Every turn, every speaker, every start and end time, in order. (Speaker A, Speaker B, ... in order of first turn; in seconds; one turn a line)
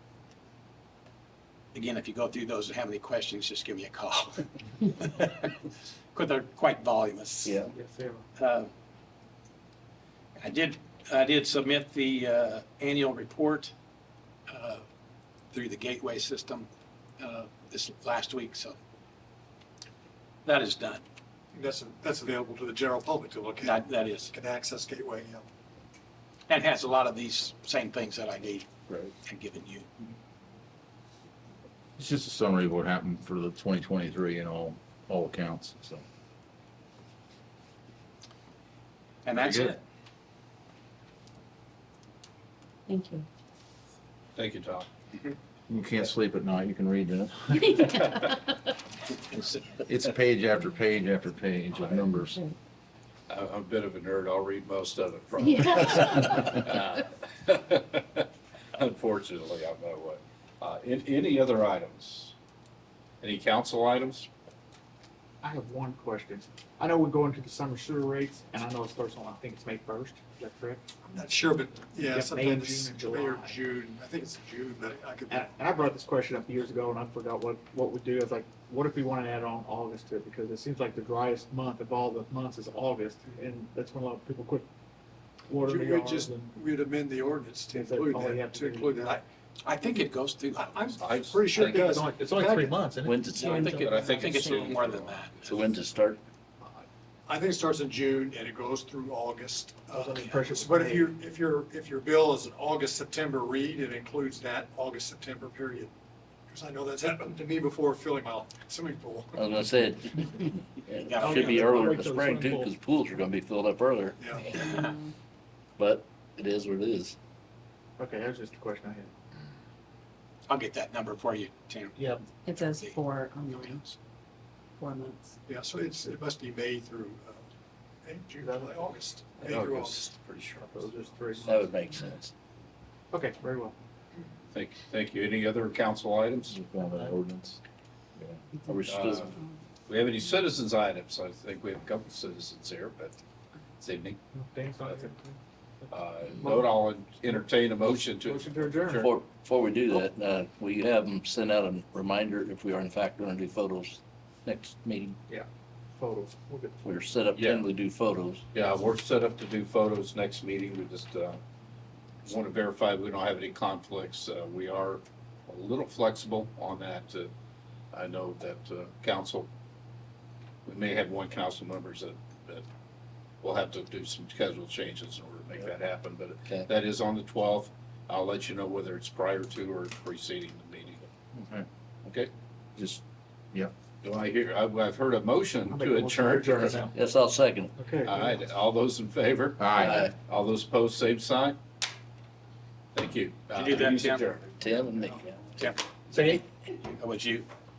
Speaker A: 1.7-5.5
Speaker A: 6.1-7.6
Speaker B: 7.4-7.7
Speaker C: 7.9-8.2
Speaker A: 8.4-8.7
Speaker A: 10.4-13.7
Speaker A: 14.5-14.8
Speaker A: 15.5-18.8
Speaker A: 20.4-21.0
Speaker D: 21.5-25.5
Speaker A: 23.6-24.3
Speaker A: 26.5-28.7
Speaker A: 29.2-29.9
Speaker E: 32.0-36.0
Speaker A: 39.2-39.8
Speaker E: 39.4-39.8
Speaker F: 42.9-43.2
Speaker G: 44.4-44.9
Speaker E: 45.7-48.0
Speaker E: 49.7-52.4
Speaker G: 53.3-62.3
Speaker G: 63.2-64.3
Speaker C: 65.4-70.8
Speaker D: 71.0-75.8
Speaker C: 72.0-73.6
Speaker C: 75.3-84.7
Speaker C: 85.5-86.5
Speaker D: 85.5-89.2
Speaker C: 87.7-89.2
Speaker A: 89.7-90.9
Speaker D: 90.6-92.8
Speaker G: 91.0-91.9
Speaker C: 91.5-93.1
Speaker B: 93.0-93.9
Speaker A: 93.3-95.6
Speaker F: 93.4-94.8
Speaker G: 93.8-95.1
Speaker B: 95.4-96.2
Speaker D: 97.3-105.9
Speaker C: 99.9-101.2
Speaker D: 106.5-109.4
Speaker B: 109.3-114.2
Speaker A: 111.0-111.9
Speaker C: 111.2-112.7
Speaker D: 111.7-112.2
Speaker D: 114.2-114.5
Speaker A: 114.5-114.9
Speaker F: 114.5-115.0
Speaker B: 115.8-117.1
Speaker C: 118.0-119.1
Speaker A: 120.5-123.9
Speaker C: 122.0-122.2
Speaker F: 122.4-123.8
Speaker F: 124.8-125.3
Speaker D: 125.5-127.5
Speaker D: 128.0-130.0
Speaker C: 128.4-129.0
Speaker G: 129.3-131.2
Speaker B: 129.7-130.0
Speaker C: 130.8-131.6
Speaker B: 131.4-132.3
Speaker C: 133.1-133.7
Speaker G: 134.5-136.6
Speaker E: 136.5-137.6
Speaker B: 138.7-139.3
Speaker G: 138.9-143.2
Speaker G: 143.8-144.2
Speaker C: 144.3-145.2
Speaker G: 144.8-145.2
Speaker G: 145.9-149.1
Speaker C: 148.3-149.0
Speaker B: 148.9-155.2
Speaker C: 156.0-156.8
Speaker B: 156.8-158.4
Speaker G: 157.3-157.7
Speaker G: 158.5-161.4
Speaker G: 162.2-167.3
Speaker G: 167.9-169.5
Speaker G: 170.7-172.6
Speaker G: 173.4-181.1
Speaker E: 181.3-181.7
Speaker G: 182.0-182.3
Speaker E: 182.8-183.0
Speaker G: 184.0-186.9
Speaker C: 185.7-187.0
Speaker B: 186.6-187.7
Speaker C: 187.8-188.3
Speaker G: 188.0-191.6
Speaker E: 189.6-190.1
Speaker B: 189.8-190.1
Speaker G: 192.9-194.5
Speaker A: 193.5-194.4
Speaker B: 194.6-195.5
Speaker A: 195.6-197.5